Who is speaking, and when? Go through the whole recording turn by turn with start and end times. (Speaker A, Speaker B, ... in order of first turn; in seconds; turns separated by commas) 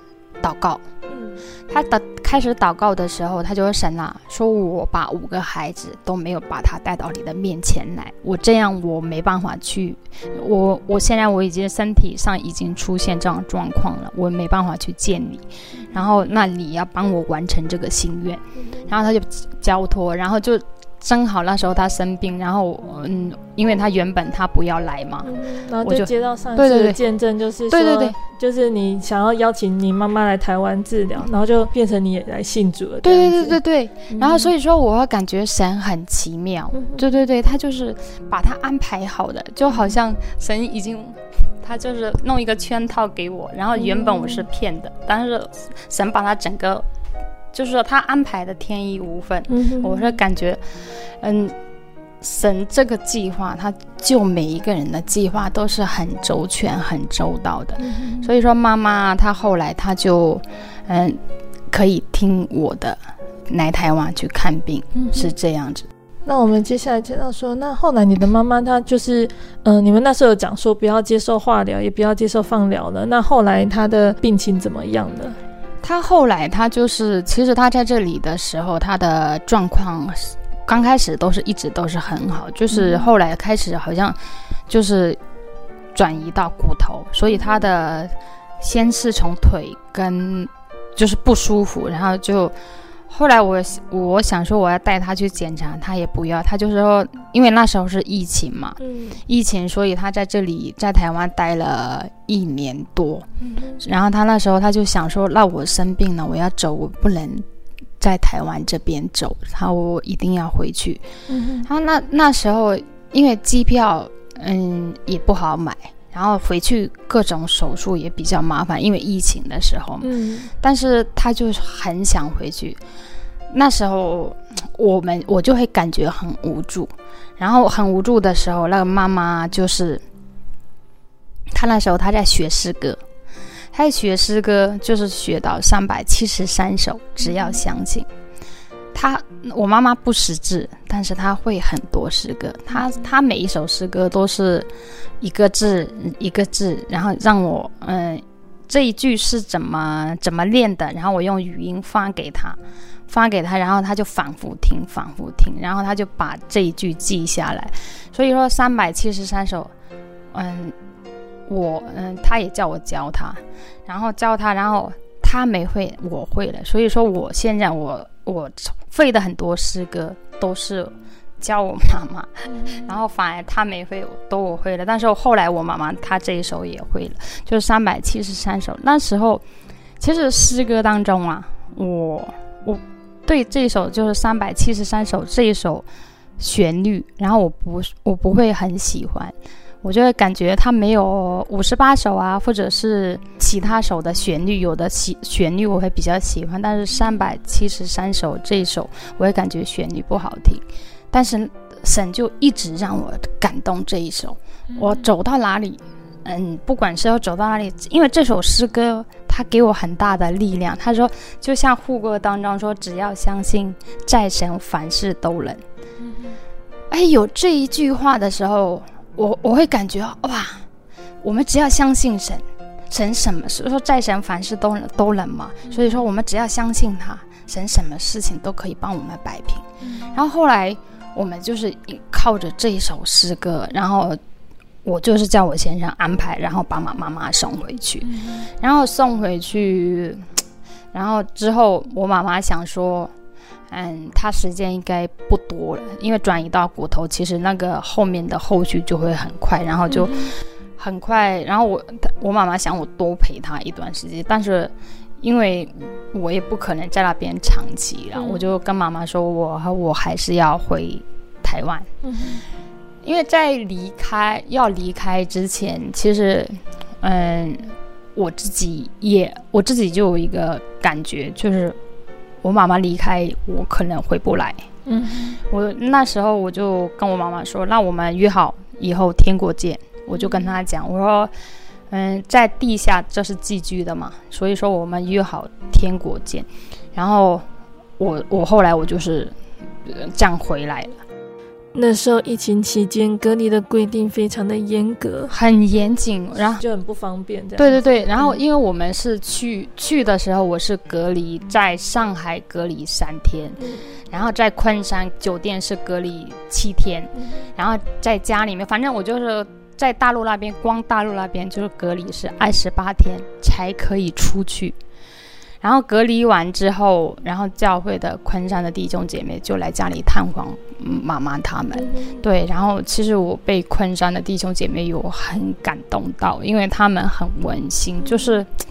Speaker A: 0.4-0.8, Speaker B: 1.1-1.4, Speaker A: 1.7-25.3, Speaker B: 18.6-18.8, Speaker B: 25.2-33.6, Speaker A: 25.8-27.0, Speaker A: 27.7-28.1, Speaker A: 33.0-46.9, Speaker B: 34.1-34.5, Speaker B: 36.7-37.0, Speaker B: 43.8-44.5, Speaker A: 47.5-51.5, Speaker B: 49.5-50.0, Speaker A: 52.2-61.2, Speaker B: 57.8-58.3, Speaker A: 61.7-65.9, Speaker B: 64.9-65.3, Speaker B: 66.2-75.4, Speaker A: 75.8-84.2, Speaker B: 82.7-83.1, Speaker A: 84.7-85.2, Speaker A: 85.9-92.5, Speaker A: 93.1-103.2, Speaker B: 98.8-99.2, Speaker B: 103.4-103.8, Speaker A: 103.8-107.4, Speaker A: 108.0-111.0, Speaker B: 111.3-111.7, Speaker A: 111.7-120.1, Speaker B: 120.0-120.5, Speaker A: 120.6-122.8, Speaker A: 123.5-130.0, Speaker A: 131.5-133.0, Speaker A: 133.7-138.1, Speaker B: 137.2-137.6, Speaker A: 138.9-144.7, Speaker A: 145.2-159.7, Speaker A: 160.3-160.7, Speaker A: 161.5-179.4, Speaker B: 172.5-172.9, Speaker A: 180.0-185.9, Speaker A: 186.4-215.6, Speaker B: 204.7-205.0, Speaker B: 216.0-216.4, Speaker A: 216.9-220.7, Speaker A: 221.2-234.2, Speaker B: 225.7-226.0, Speaker B: 229.8-230.1, Speaker A: 234.8-238.1, Speaker B: 238.0-238.5, Speaker A: 238.6-240.2, Speaker A: 240.9-243.1, Speaker A: 243.7-250.2, Speaker B: 249.9-250.3, Speaker A: 250.8-261.9, Speaker B: 258.1-258.4, Speaker B: 262.0-262.4, Speaker A: 263.0-271.8, Speaker A: 272.4-274.6, Speaker B: 274.9-275.4, Speaker A: 275.5-281.3, Speaker B: 280.1-280.5, Speaker A: 281.9-287.4, Speaker A: 288.0-291.0, Speaker B: 291.7-295.3, Speaker A: 295.3-296.6, Speaker B: 296.5-298.4, Speaker A: 297.6-303.6, Speaker B: 303.6-303.9, Speaker A: 304.1-314.8, Speaker A: 315.6-328.5, Speaker B: 321.7-322.2